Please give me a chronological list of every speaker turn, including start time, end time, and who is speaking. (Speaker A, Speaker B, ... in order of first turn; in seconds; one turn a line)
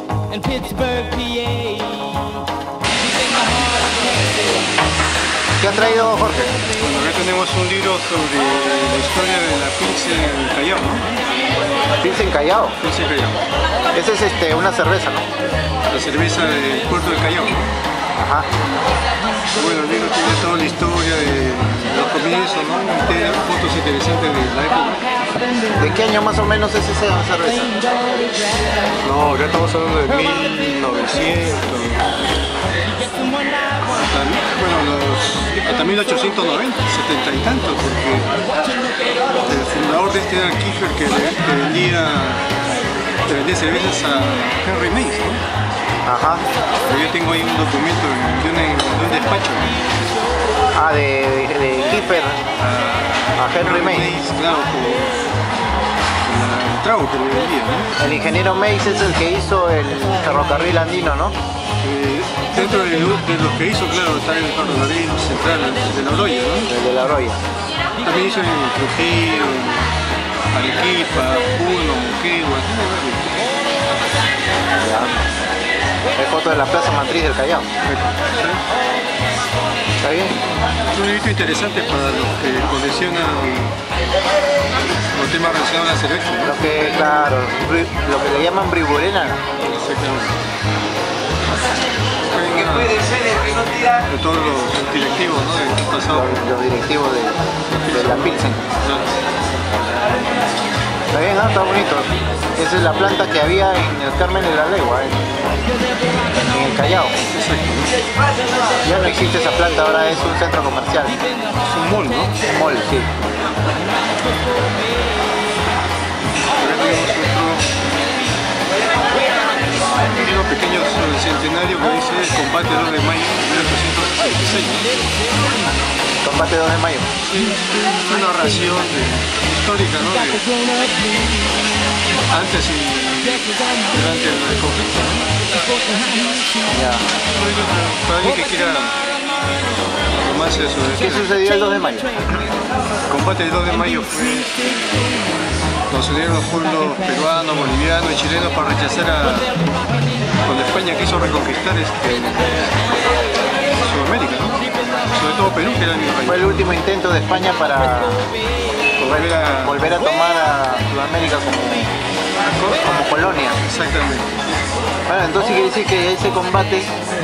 Speaker A: 0.3-2.5
Speaker A: 3.0-4.0
Speaker B: 5.6-6.6
Speaker C: 6.8-11.1
Speaker B: 12.0-12.8
Speaker C: 12.8-13.4
Speaker B: 13.9-15.3
Speaker C: 15.9-17.7
Speaker B: 18.2-18.5
Speaker C: 19.5-25.1
Speaker B: 25.7-27.8
Speaker A: 28.0-28.4
Speaker C: 29.0-32.0
Speaker C: 33.9-38.3
Speaker C: 39.5-42.5
Speaker C: 43.2-45.4
Speaker B: 46.0-46.4
Speaker C: 46.8-49.8
Speaker B: 50.7-52.4
Speaker C: 52.6-55.2
Speaker B: 53.4-54.1
Speaker C: 56.2-57.9
Speaker B: 58.0-61.4
Speaker C: 61.8-66.7
Speaker B: 66.7-67.4
Speaker C: 68.0-69.9
Speaker C: 70.5-73.4
Speaker B: 74.8-75.1
Speaker B: 76.2-77.7
Speaker C: 77.8-78.6
Speaker B: 80.0-80.3
Speaker C: 80.9-83.8
Speaker C: 85.1-86.5
Speaker B: 86.4-89.4
Speaker C: 89.6-90.4
Speaker C: 92.3-93.2
Speaker C: 94.0-96.4
Speaker B: 96.1-98.6
Speaker C: 97.7-99.1
Speaker B: 101.1-105.3
Speaker B: 106.5-107.1
Speaker C: 107.3-107.9
Speaker B: 108.8-111.2
Speaker C: 111.6-112.4
Speaker B: 112.5-113.1
Speaker C: 116.5-117.7
Speaker C: 120.1-124.9
Speaker B: 126.2-127.1
Speaker C: 127.2-130.5
Speaker C: 132.3-135.3
Speaker B: 136.7-137.1
Speaker C: 137.3-139.0
Speaker C: 140.2-141.4
Speaker B: 140.9-142.3
Speaker C: 143.1-145.1
Speaker C: 145.9-149.5
Speaker C: 150.4-152.7
Speaker C: 153.8-156.6
Speaker B: 156.2-158.3
Speaker C: 159.0-159.9
Speaker B: 159.0-161.9
Speaker C: 162.4-162.9
Speaker B: 162.8-163.6
Speaker C: 163.6-164.4
Speaker B: 165.1-166.9